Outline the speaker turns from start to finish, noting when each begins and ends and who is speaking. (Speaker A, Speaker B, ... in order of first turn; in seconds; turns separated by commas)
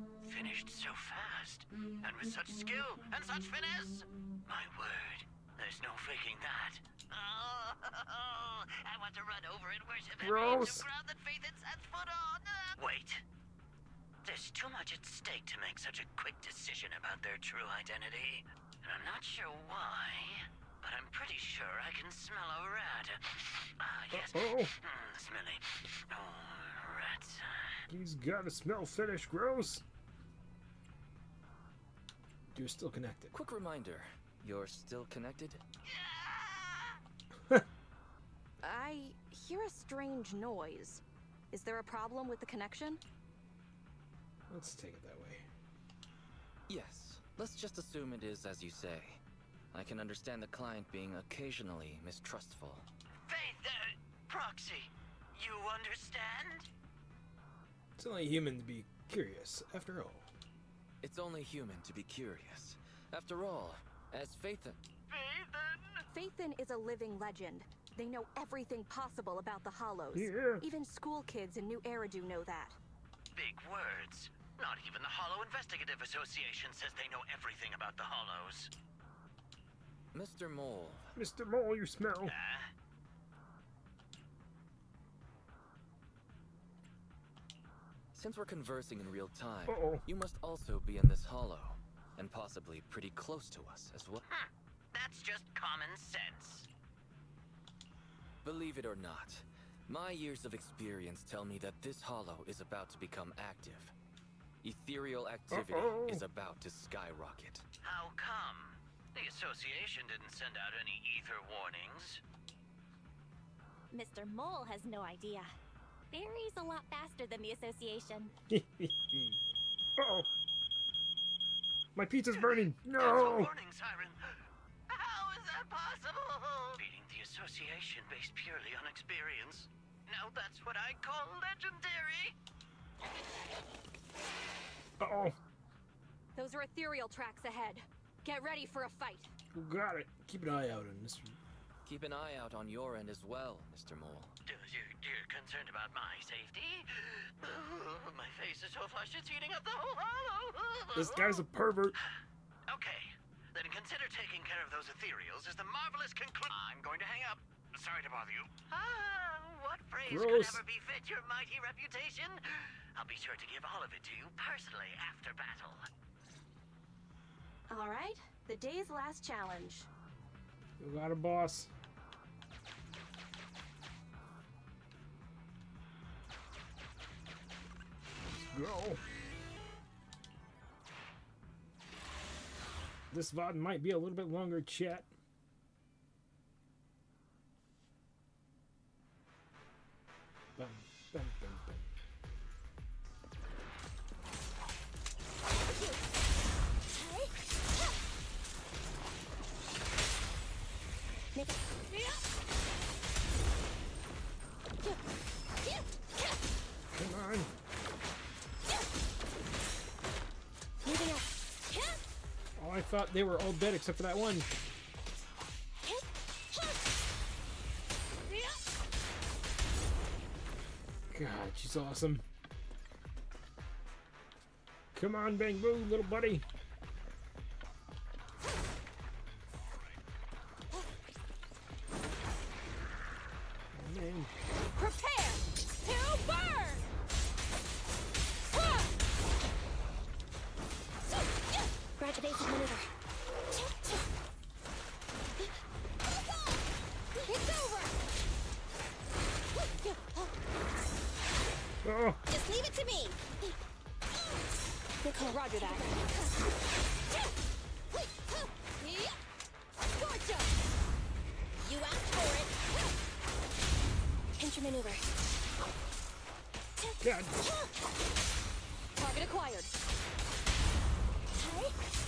Speaker A: 0.2-13.2, Speaker B: 10.2-10.9, Speaker A: 14.2-27.8, Speaker B: 24.1-24.7, Speaker B: 27.9-29.8, Speaker B: 32.5-33.3, Speaker C: 33.3-35.6, Speaker A: 35.8-37.0, Speaker D: 38.6-43.0, Speaker B: 44.5-45.5, Speaker C: 46.7-49.2, Speaker C: 49.7-52.9, Speaker A: 53.3-56.7, Speaker B: 58.0-60.3, Speaker C: 61.0-64.8, Speaker A: 65.1-66.0, Speaker D: 66.1-72.8, Speaker B: 70.1-70.7, Speaker A: 73.3-78.7, Speaker C: 80.1-81.1, Speaker B: 81.2-82.3, Speaker A: 82.2-82.7, Speaker C: 88.1-94.2, Speaker B: 89.7-90.0, Speaker A: 94.3-96.7, Speaker C: 98.4-103.9, Speaker C: 104.6-107.7, Speaker B: 105.5-106.2, Speaker A: 107.8-112.2, Speaker E: 113.9-115.5, Speaker E: 116.1-118.3, Speaker B: 118.5-119.4, Speaker B: 120.0-120.3, Speaker B: 122.0-123.5, Speaker A: 122.3-132.4, Speaker B: 135.0-135.4, Speaker D: 136.4-139.3, Speaker B: 139.5-141.4, Speaker C: 141.9-144.3, Speaker A: 144.5-151.4, Speaker B: 150.9-152.0, Speaker A: 152.7-165.9, Speaker B: 160.1-160.6, Speaker D: 167.7-169.9, Speaker B: 170.8-171.7, Speaker B: 178.2-179.0, Speaker B: 183.1-185.1, Speaker B: 190.6-191.9, Speaker F: 195.7-196.0, Speaker F: 196.9-197.3, Speaker F: 201.4-202.2, Speaker F: 205.6-206.3, Speaker B: 206.9-207.5, Speaker F: 210.9-212.0, Speaker B: 212.6-214.5, Speaker F: 215.8-216.8, Speaker F: 218.3-218.6, Speaker B: 221.1-222.2, Speaker B: 224.9-226.4, Speaker B: 233.7-234.3, Speaker F: 234.8-236.8, Speaker F: 238.5-238.9, Speaker F: 241.1-241.4, Speaker F: 243.5-244.0, Speaker F: 246.0-246.6, Speaker F: 247.2-247.9, Speaker F: 249.7-250.3, Speaker B: 251.8-252.2, Speaker F: 252.3-253.5, Speaker D: 255.1-255.9, Speaker F: 255.1-255.9, Speaker F: 257.9-259.1, Speaker D: 260.0-260.4, Speaker F: 261.6-262.6, Speaker F: 264.7-265.0, Speaker F: 266.8-267.7, Speaker B: 267.0-267.4, Speaker D: 269.0-269.8, Speaker F: 271.4-271.7